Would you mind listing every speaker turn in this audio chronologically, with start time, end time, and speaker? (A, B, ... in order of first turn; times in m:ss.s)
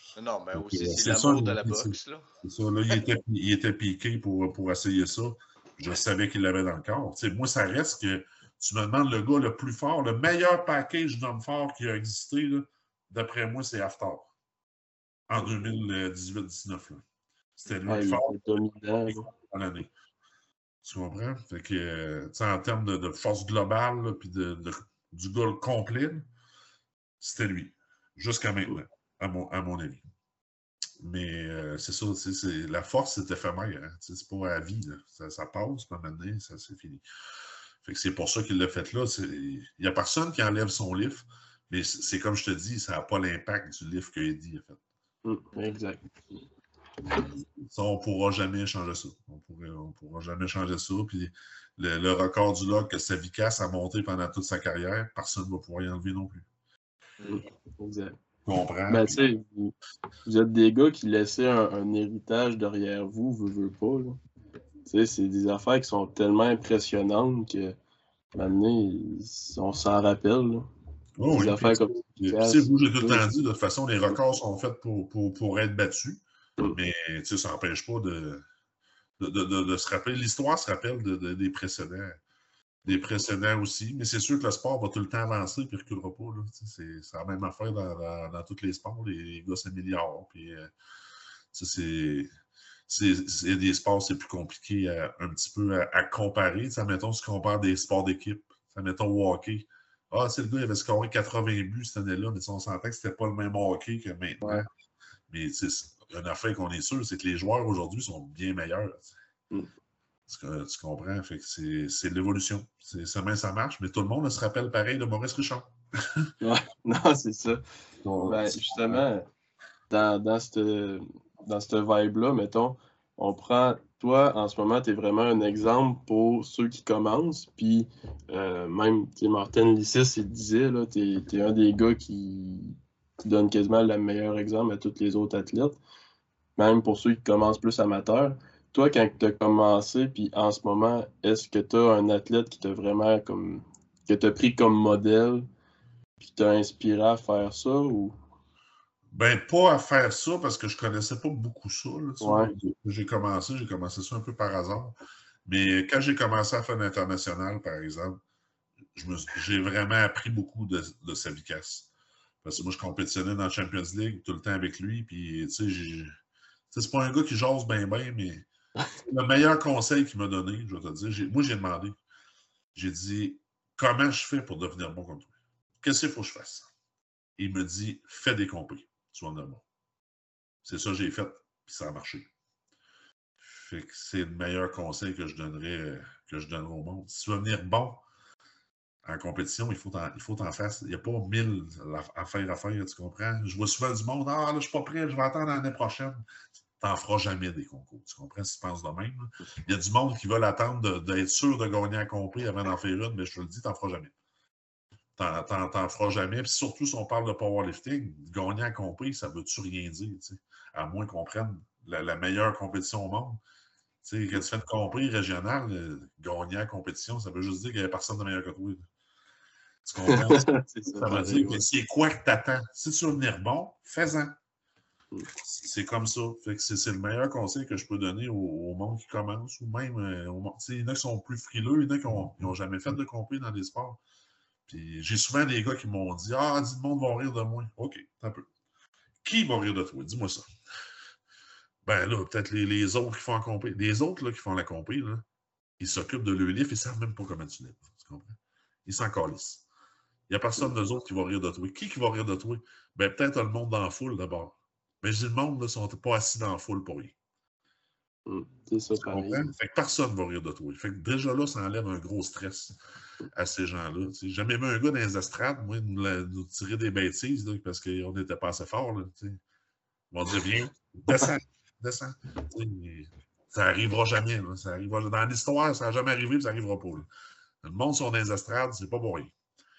0:00.2-0:02.3 A
0:00.5-0:14.3 B
0:15.3-0:17.0 B
0:17.6-0:19.9 B
0:17.9-0:19.3 C
0:20.8-0:26.3 B
0:27.2-0:30.0 B
0:31.0-0:37.0 B
0:37.8-0:44.8 B
0:45.2-0:46.4 C
0:47.1-0:56.5 B
0:57.3-0:58.2 C
0:58.4-0:59.2 B
0:58.9-0:59.7 C
1:00.2-1:04.2 C
1:04.9-1:07.8 C
1:08.3-1:10.6 C
1:11.2-1:16.2 B
1:11.3-1:13.3 C
1:16.7-1:18.4 B
1:19.2-1:22.2 B
1:22.8-1:30.7 B
1:31.5-1:32.3 B
1:32.9-1:44.7 B
1:44.4-1:44.7 C
1:45.3-1:49.1 B
1:50.3-1:56.3 B
1:56.4-1:57.6 C
1:58.0-1:59.0 B
1:58.3-1:59.3 C
1:59.9-2:15.8 C
2:16.6-2:25.5 C
2:26.2-2:28.2 C
2:29.1-2:38.2 B
2:32.2-2:32.5 C
2:39.0-2:41.9 B
2:42.4-2:46.1 B
2:46.7-2:48.5 B
2:49.0-2:52.0 B
2:52.8-2:56.7 B
2:57.4-2:59.6 B
3:00.6-3:02.3 B
3:03.4-3:08.0 B
3:09.0-3:16.2 B
3:16.8-3:24.2 B
3:25.2-3:33.4 B
3:34.0-3:38.9 B
3:39.8-3:44.4 B
3:40.0-3:41.6 C
3:45.4-3:54.0 B
3:54.7-3:58.5 B
3:59.2-4:00.4 B
4:01.8-4:05.2 B
4:05.8-4:09.6 B
4:10.3-4:17.2 B
4:18.3-4:19.5 C
4:19.0-4:22.8 B
4:23.3-4:29.4 B
4:30.1-4:37.1 B
4:37.6-4:39.3 B